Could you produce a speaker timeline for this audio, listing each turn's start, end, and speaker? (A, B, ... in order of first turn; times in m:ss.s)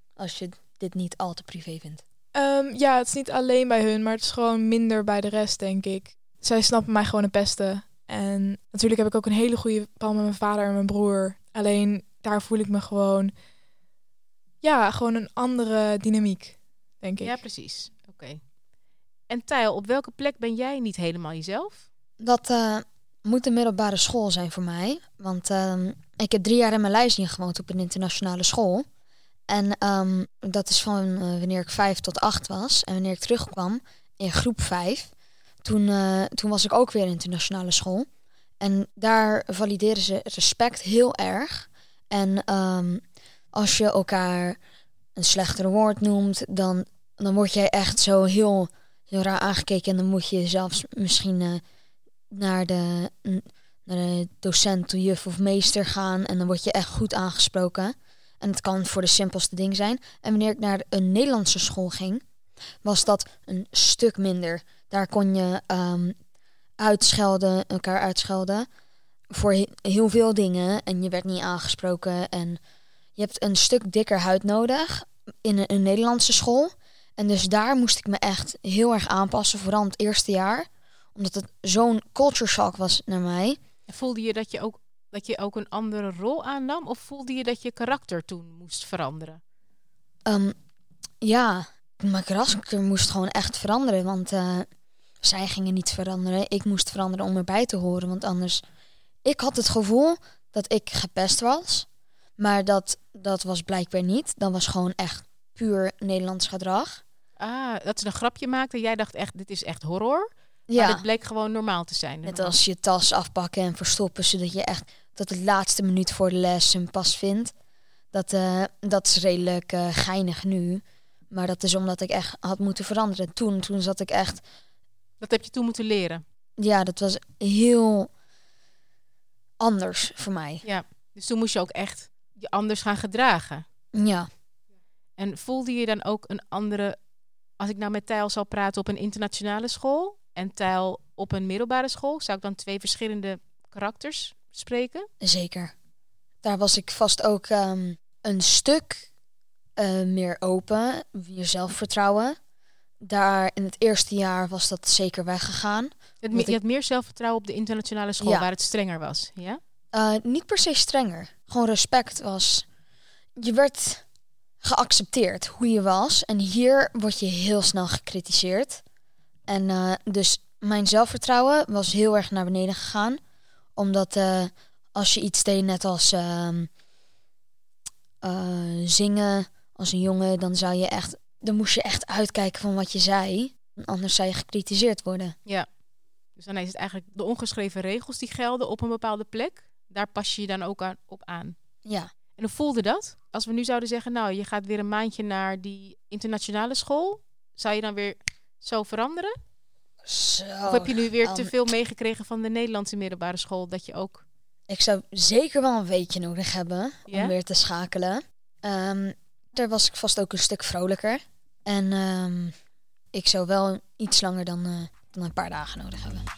0:00.2-0:02.0 A
0:02.4-0:13.3 B
0:14.6-0:17.4 B
0:17.2-0:18.4 C
0:19.3-0:21.9 C
0:22.2-0:28.9 A
0:29.5-0:35.1 A
0:35.6-0:38.1 A
0:38.6-0:43.0 A
0:43.5-0:44.6 A
0:45.2-0:51.6 A
0:52.3-1:02.2 A
1:02.8-1:06.2 A
1:06.8-1:08.7 A
1:09.3-1:12.6 A
1:13.2-1:23.6 A
1:23.9-1:29.4 C
1:30.3-1:30.6 A
1:31.2-1:34.7 A
1:35.2-1:38.6 A
1:39.2-1:41.9 A
1:42.4-1:47.0 A
1:47.4-1:52.6 C
1:50.7-1:51.0 A
1:52.2-1:57.5 A
1:58.1-2:04.4 A
2:05.2-2:06.2 C
2:06.6-2:08.1 A
2:09.6-2:10.6 A
2:10.6-2:13.6 C
2:13.9-2:14.3 A
2:15.2-2:17.0 C
2:17.6-2:25.1 C
2:25.2-2:25.7 A
2:26.4-2:29.0 A
2:29.8-2:32.4 A
2:33.1-2:36.6 A
2:36.2-2:39.6 C
2:38.2-2:38.5 A
2:39.9-2:42.7 A
2:43.4-2:44.0 A
2:44.6-2:48.8 A
2:49.5-2:53.2 A
2:53.8-2:56.7 A
2:58.2-3:05.4 A
3:06.4-3:11.6 C
3:12.4-3:19.4 C
3:20.1-3:21.6 A
3:20.7-3:24.2 C
3:24.7-3:32.5 A
3:27.1-3:27.4 C
3:33.1-3:36.2 A